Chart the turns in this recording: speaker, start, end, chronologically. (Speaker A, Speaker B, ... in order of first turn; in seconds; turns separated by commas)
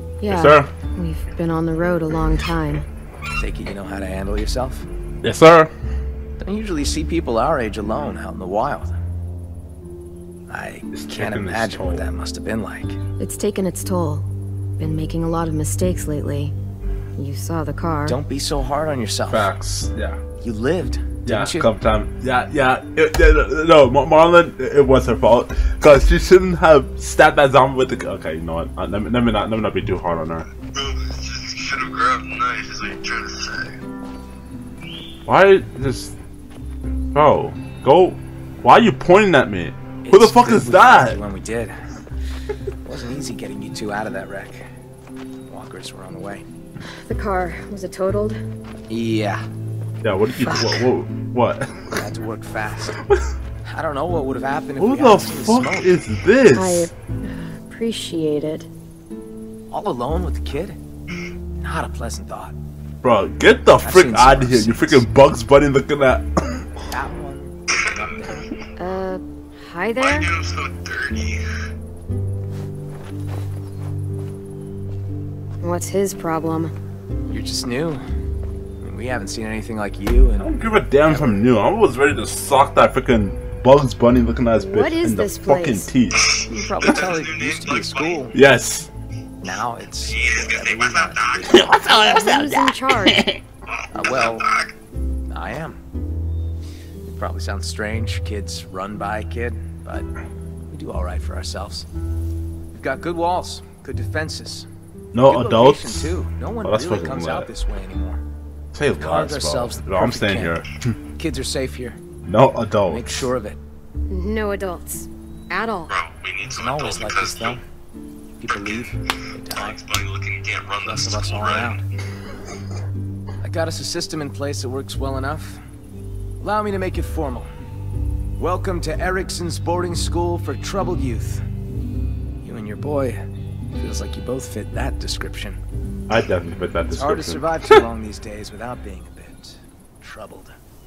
Speaker A: 0.2-2.8, Speaker B: 0.3-0.7, Speaker C: 3.4-4.8, Speaker B: 5.2-5.7, Speaker C: 6.4-9.0, Speaker C: 10.5-13.0, Speaker B: 10.9-12.1, Speaker A: 13.2-14.3, Speaker A: 14.8-16.5, Speaker A: 17.1-18.2, Speaker C: 18.1-19.5, Speaker B: 19.3-20.2, Speaker C: 20.4-21.7, Speaker B: 21.2-30.5, Speaker D: 30.7-33.8, Speaker B: 35.2-36.1, Speaker B: 37.1-41.2, Speaker C: 40.0-41.8, Speaker C: 42.8-44.6, Speaker C: 45.5-46.4, Speaker A: 47.0-48.4, Speaker C: 48.9-49.4, Speaker B: 50.0-51.9, Speaker A: 50.4-50.8, Speaker C: 51.9-53.0, Speaker C: 53.6-56.0, Speaker B: 54.8-56.9, Speaker A: 56.5-58.7, Speaker C: 59.7-60.8, Speaker C: 61.6-62.5, Speaker B: 63.0-66.7, Speaker C: 63.8-65.0, Speaker C: 66.9-68.5, Speaker D: 67.7-68.6, Speaker A: 68.8-70.3, Speaker D: 70.0-71.4, Speaker A: 75.6-76.7, Speaker C: 77.3-78.0, Speaker C: 78.8-81.4, Speaker B: 80.4-86.2, Speaker A: 84.5-85.9, Speaker D: 86.1-88.3, Speaker C: 86.3-88.3, Speaker B: 88.3-88.9, Speaker C: 89.4-91.8, Speaker D: 90.0-91.7, Speaker B: 91.5-93.4, Speaker A: 91.8-93.2, Speaker D: 93.7-94.7, Speaker C: 93.9-94.5, Speaker C: 95.3-95.8, Speaker C: 97.0-100.1, Speaker C: 100.7-101.8, Speaker C: 102.7-104.7, Speaker B: 105.1-107.5, Speaker C: 105.2-108.2, Speaker B: 108.7-110.9, Speaker C: 109.0-110.6, Speaker C: 111.2-112.0, Speaker B: 112.2-113.2, Speaker C: 112.9-113.6, Speaker A: 114.1-115.9, Speaker D: 115.9-117.6, Speaker C: 116.5-117.6, Speaker C: 118.4-119.8, Speaker D: 118.5-121.8, Speaker C: 120.8-121.8, Speaker C: 123.4-125.6, Speaker C: 126.4-127.5, Speaker C: 128.4-131.4, Speaker C: 132.4-133.2, Speaker C: 133.8-135.6, Speaker B: 136.1-137.5, Speaker C: 136.9-140.6